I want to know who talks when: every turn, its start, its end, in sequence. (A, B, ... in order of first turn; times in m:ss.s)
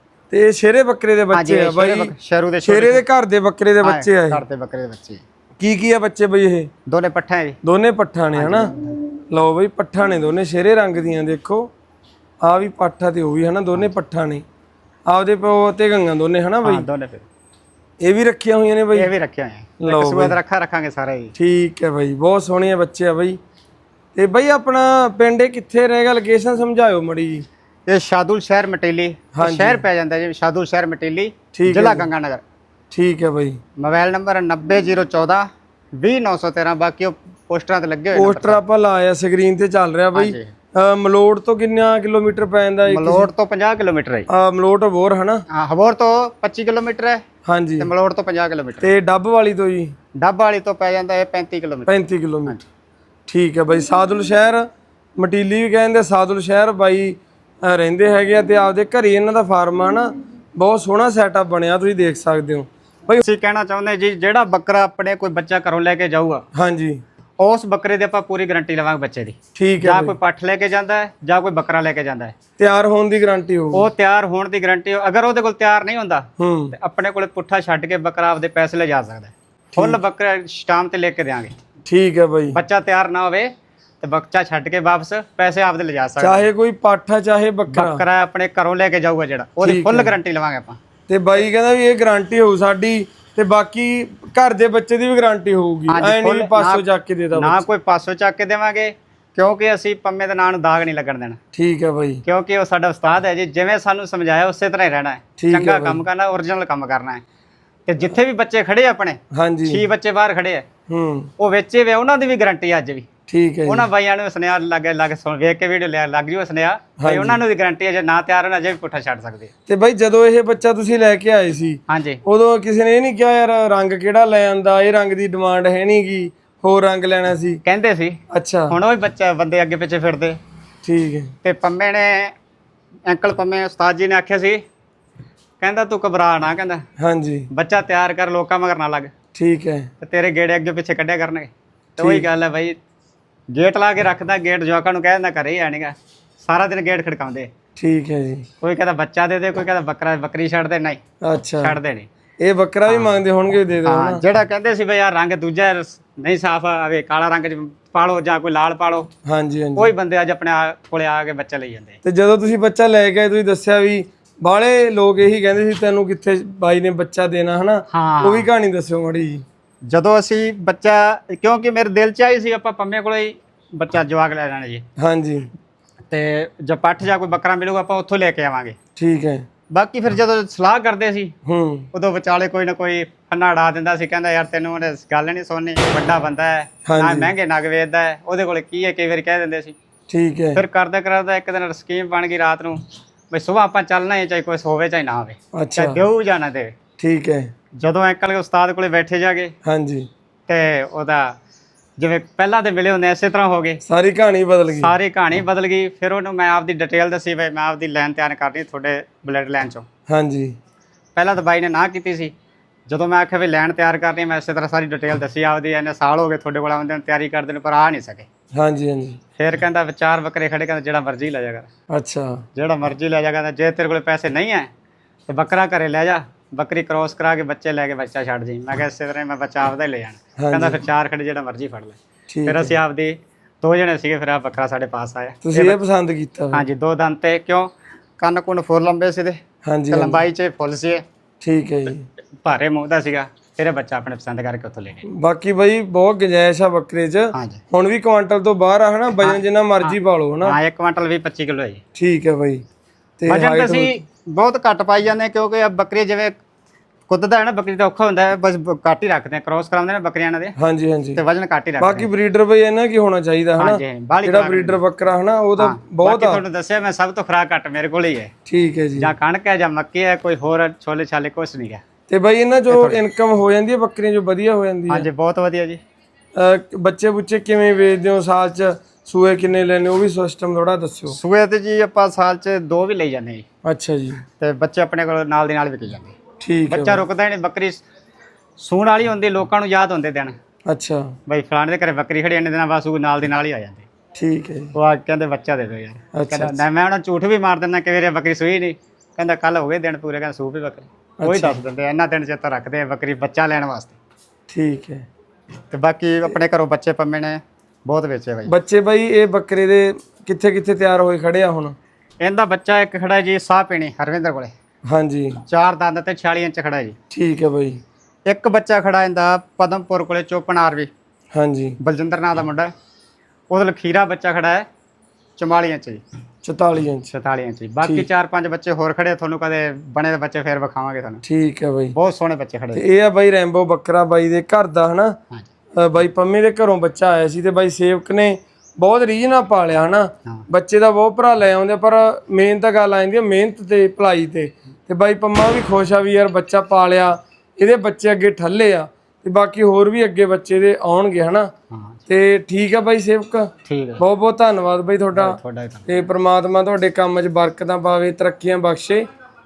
0:00.3-0:02.1 A
0:01.3-0:03.0 B
0:02.6-0:04.4 A
0:03.8-0:05.2 B
0:05.6-0:06.7 A
0:06.9-0:07.6 B
0:07.6-0:11.7 A
0:08.3-0:08.9 B
0:12.4-0:14.4 A
0:15.1-0:16.9 A
0:16.6-0:17.3 B
0:18.0-0:19.1 A
0:18.9-0:21.3 B
0:19.8-0:20.4 A
0:21.4-0:23.4 A
0:24.2-0:27.5 A
0:27.9-0:32.4 B
0:29.4-0:29.8 A
0:31.5-0:32.1 A
0:32.9-0:33.6 A
0:33.8-0:38.6 B
0:38.1-0:43.3 A
0:40.1-0:40.5 B
0:42.9-0:44.3 B
0:44.3-0:45.4 A
0:45.5-0:47.2 B
0:47.4-0:47.9 A
0:47.8-0:48.9 B
0:48.8-0:49.9 A
0:50.2-0:52.6 B
0:51.9-0:52.6 A
0:53.3-1:03.2 A
1:03.2-1:06.4 B
1:06.5-1:07.0 A
1:07.4-1:12.3 B
1:09.6-1:10.2 A
1:12.6-1:13.9 A
1:13.7-1:21.5 B
1:16.4-1:16.8 A
1:19.7-1:20.0 A
1:21.9-1:22.6 A
1:22.5-1:26.5 B
1:26.2-1:28.0 A
1:27.7-1:30.8 B
1:29.6-1:30.2 A
1:31.1-1:37.7 A
1:35.9-1:41.4 B
1:41.5-1:42.2 A
1:42.2-1:47.2 B
1:45.4-1:46.0 A
1:47.9-1:50.7 B
1:49.3-1:49.8 A
1:50.9-1:51.3 A
1:51.4-1:53.1 B
1:53.3-1:53.9 A
1:53.7-1:59.5 B
1:57.0-1:57.4 A
1:59.7-2:07.6 A
2:01.9-2:02.2 B
2:07.6-2:10.4 B
2:08.3-2:08.8 A
2:10.8-2:11.3 A
2:11.4-2:12.4 B
2:13.1-2:14.6 B
2:15.6-2:16.8 B
2:17.0-2:17.5 A
2:17.5-2:19.1 B
2:19.3-2:19.9 A
2:20.0-2:22.8 B
2:22.0-2:22.3 A
2:23.5-2:27.5 B
2:27.8-2:28.5 A
2:28.6-2:31.0 B
2:31.2-2:31.8 A
2:31.6-2:32.1 B
2:32.4-2:34.2 A
2:32.9-2:33.2 B
2:33.8-2:39.1 B
2:39.2-2:39.9 A
2:39.8-2:42.0 B
2:42.0-2:49.4 A
2:47.9-2:48.5 B
2:49.9-2:54.8 B
2:55.0-2:55.5 A
2:56.1-2:58.8 B
2:59.0-2:59.5 A
2:59.7-3:01.4 B
3:01.4-3:01.9 A
3:01.9-3:09.8 B
3:06.9-3:07.3 A
3:10.1-3:10.6 A
3:10.5-3:16.8 B
3:15.5-3:16.0 A
3:17.0-3:17.5 A
3:17.8-3:19.6 B
3:19.6-3:20.1 A
3:20.5-3:21.4 B
3:22.0-3:23.8 B
3:23.8-3:24.9 A
3:24.8-3:29.9 B
3:30.1-3:30.6 A
3:31.2-3:32.3 B
3:32.9-3:38.3 B
3:38.5-3:39.2 A
3:39.4-3:41.7 B
3:41.9-3:42.4 A
3:42.6-3:44.7 B
3:45.3-3:55.8 B
3:50.4-3:50.8 A
3:52.3-3:52.8 A
3:55.4-3:56.7 A
3:56.5-4:01.0 B
3:59.6-4:00.2 A
4:01.4-4:02.0 A
4:02.4-4:05.0 B
4:05.1-4:10.6 A
4:07.3-4:07.6 B
4:09.2-4:11.8 B
4:12.0-4:12.6 A
4:13.2-4:13.9 A
4:13.3-4:16.4 B
4:17.1-4:20.6 B
4:20.6-4:21.2 A
4:21.2-4:22.1 B
4:21.8-4:26.4 A
4:23.6-4:24.8 B
4:25.6-4:28.3 B
4:28.5-4:29.1 A
4:29.0-4:31.8 B
4:32.1-4:35.1 A
4:32.7-4:33.0 B
4:34.9-4:35.8 B
4:36.3-4:41.2 A
4:41.1-4:43.4 B
4:43.6-4:44.2 A
4:44.4-4:46.2 B
4:46.4-4:47.0 A
4:46.7-4:47.8 B
4:48.6-4:50.4 B
4:50.7-4:51.2 A
4:51.3-4:53.9 B
4:54.2-4:54.8 A
4:54.7-5:04.0 B
4:56.1-4:56.6 A
5:01.2-5:01.6 A
5:04.5-5:05.1 A
5:05.7-5:08.6 B
5:08.5-5:11.8 A
5:12.2-5:14.5 B
5:14.9-5:15.4 A
5:15.5-5:17.0 B
5:17.1-5:17.8 A
5:18.3-5:20.9 B
5:21.3-5:21.8 A
5:21.8-5:22.7 B
5:23.5-5:24.7 B
5:25.4-5:26.0 B
5:26.4-5:27.1 A
5:27.1-5:31.2 B
5:31.2-5:32.0 A
5:31.9-5:32.8 B
5:32.8-5:35.2 A
5:35.8-5:51.5 A
5:51.7-5:52.0 B
5:52.1-5:59.0 A
5:53.7-5:54.0 B
5:55.2-5:55.9 B